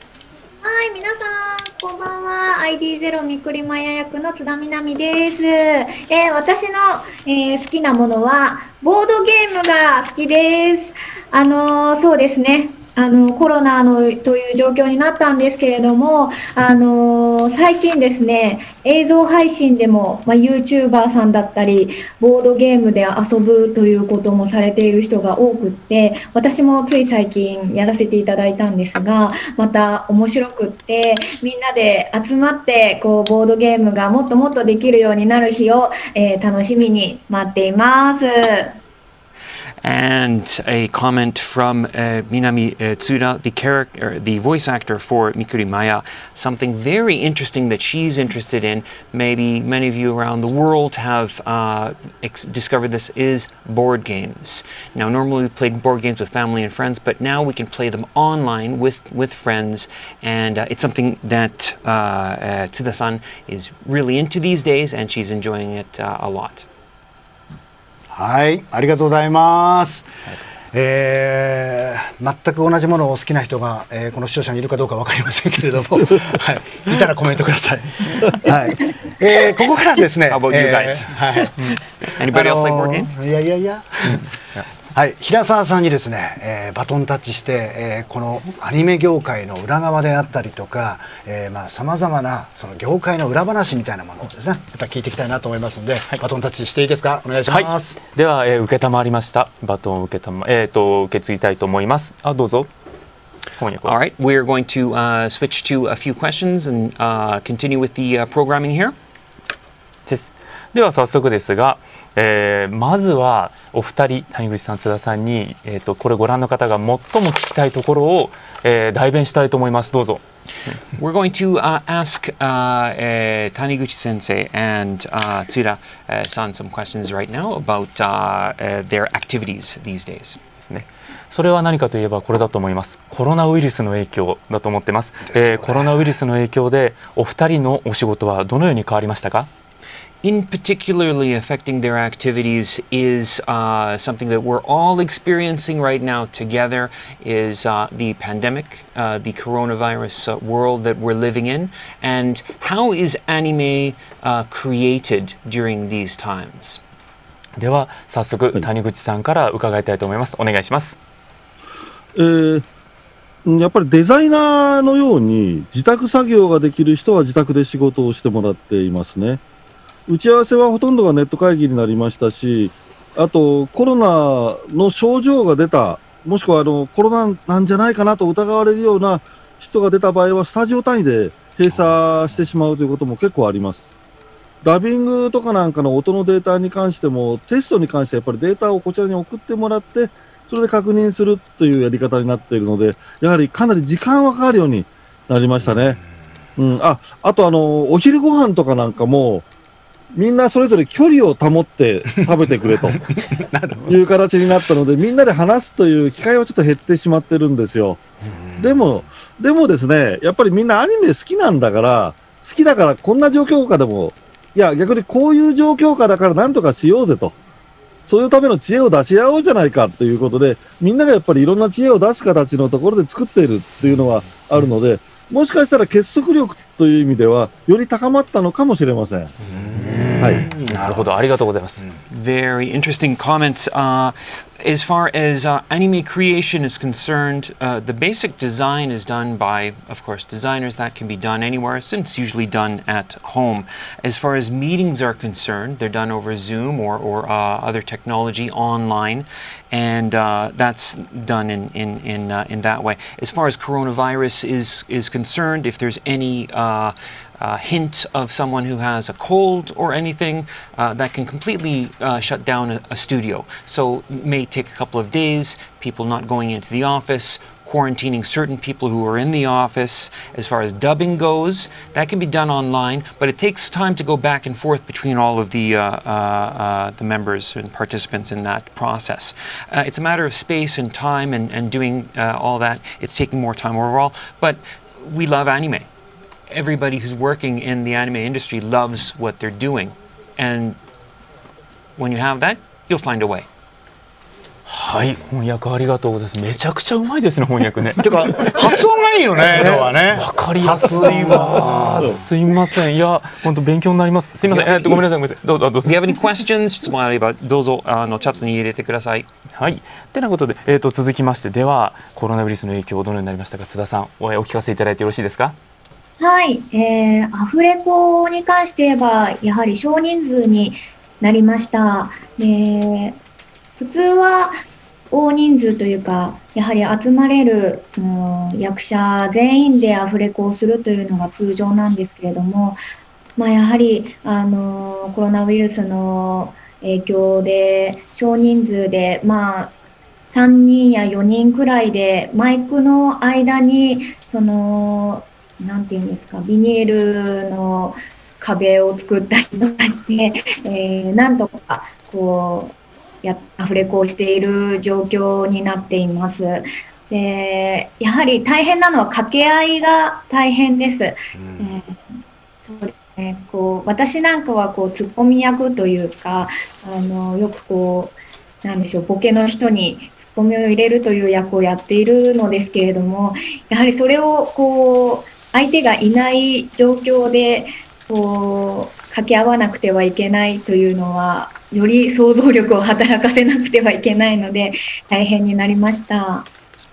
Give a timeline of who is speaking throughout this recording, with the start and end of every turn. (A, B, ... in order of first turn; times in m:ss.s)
0:00.6-0:38.8 A
0:39.8-1:06.7 B
1:08.1-1:10.1 C
1:10.7-1:21.7 C
1:20.3-1:21.2 B
1:22.0-1:23.1 B
1:22.3-1:24.2 C
1:24.9-1:38.0 C
1:37.5-1:42.7 D
1:43.6-1:44.0 D
1:43.8-1:48.9 B
1:50.1-2:00.8 D
2:01.0-2:10.4 B
2:10.6-2:19.5 D
2:15.3-2:16.1 C
2:20.2-2:36.8 B
2:37.6-2:41.0 D
2:42.1-2:42.6 E
2:43.4-2:49.4 E
2:50.1-3:03.8 E
3:04.6-3:16.0 E
3:16.6-3:19.4 E
3:20.1-3:23.0 E
3:23.3-3:24.0 C
3:23.9-3:28.0 E
3:28.2-3:28.9 C
3:28.6-3:37.3 E
3:38.1-3:49.3 E
3:49.6-3:50.2 C
3:50.2-3:50.4 E
3:50.5-3:51.8 D
3:50.7-3:51.0 C
3:52.1-4:45.9 B
4:46.5-4:50.8 B
4:52.0-4:53.5 B
4:54.6-4:58.8 D
4:58.0-5:02.2 C
4:59.5-5:06.1 D
5:05.8-5:09.3 B
5:09.6-5:15.6 D
5:16.2-5:23.2 A
5:23.8-5:24.5 A
5:25.1-5:32.8 A
5:33.4-5:39.7 A
5:40.3-6:26.5 A
6:01.4-6:01.8 C